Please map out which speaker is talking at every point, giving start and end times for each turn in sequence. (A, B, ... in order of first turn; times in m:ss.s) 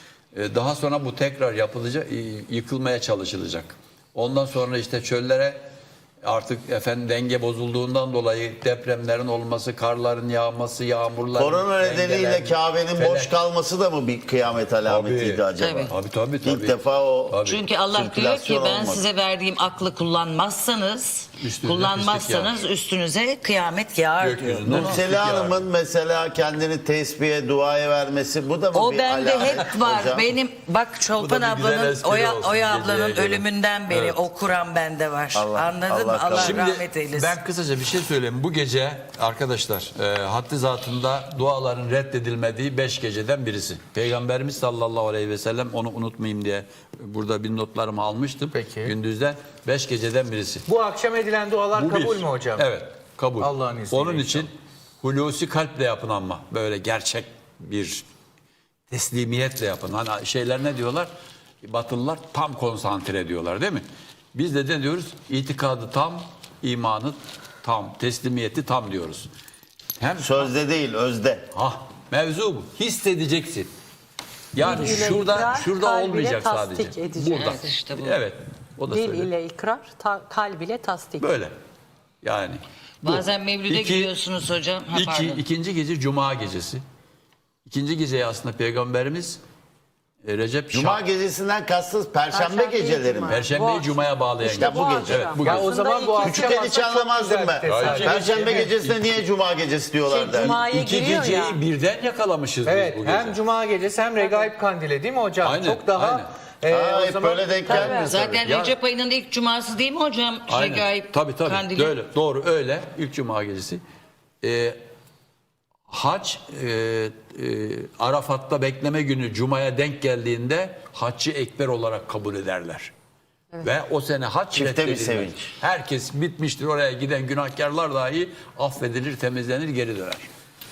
0:00.3-0:05.6 A
0:06.2-0:13.3 A
0:11.3-0:15.9 B
0:14.8-0:17.6 A
0:15.6-0:15.9 C
0:16.4-0:19.0 B
0:17.4-0:25.0 C
0:21.4-0:22.6 A
0:24.2-0:25.6 A
0:24.6-0:30.2 B
0:28.7-0:37.4 C
0:31.1-0:34.2 A
0:35.3-0:36.6 B
0:36.4-0:50.6 A
0:48.5-0:48.9 D
0:50.7-0:52.7 D
0:51.7-0:58.0 A
0:53.4-0:54.5 D
0:58.9-1:01.1 A
1:01.6-1:09.3 A
1:10.0-1:10.5 A
1:10.2-1:11.4 B
1:11.5-1:13.7 A
1:14.5-1:19.3 A
1:14.6-1:17.6 E
1:17.3-1:18.2 C
1:18.9-1:21.2 E
1:21.2-1:21.5 A
1:22.2-1:24.1 A
1:23.0-1:25.4 C
1:24.9-1:26.8 A
1:27.6-1:29.4 A
1:30.2-1:31.0 A
1:30.7-1:33.4 B
1:32.3-1:33.3 C
1:33.3-1:35.7 A
1:33.5-1:33.9 E
1:34.4-1:35.4 B
1:34.5-1:36.8 E
1:35.4-1:38.6 D
1:36.2-1:40.6 B
1:37.6-1:39.2 A
1:40.1-1:41.6 E
1:40.6-1:43.4 A
1:42.6-1:48.2 D
1:44.2-1:44.5 E
1:45.4-1:46.3 A
1:46.7-1:48.2 B
1:47.7-1:48.0 E
1:47.7-1:48.8 A
1:48.0-1:51.9 C
1:50.5-1:53.8 A
1:54.4-1:54.8 A
1:55.9-2:02.9 A
2:03.6-2:10.3 A
2:04.5-2:05.5 B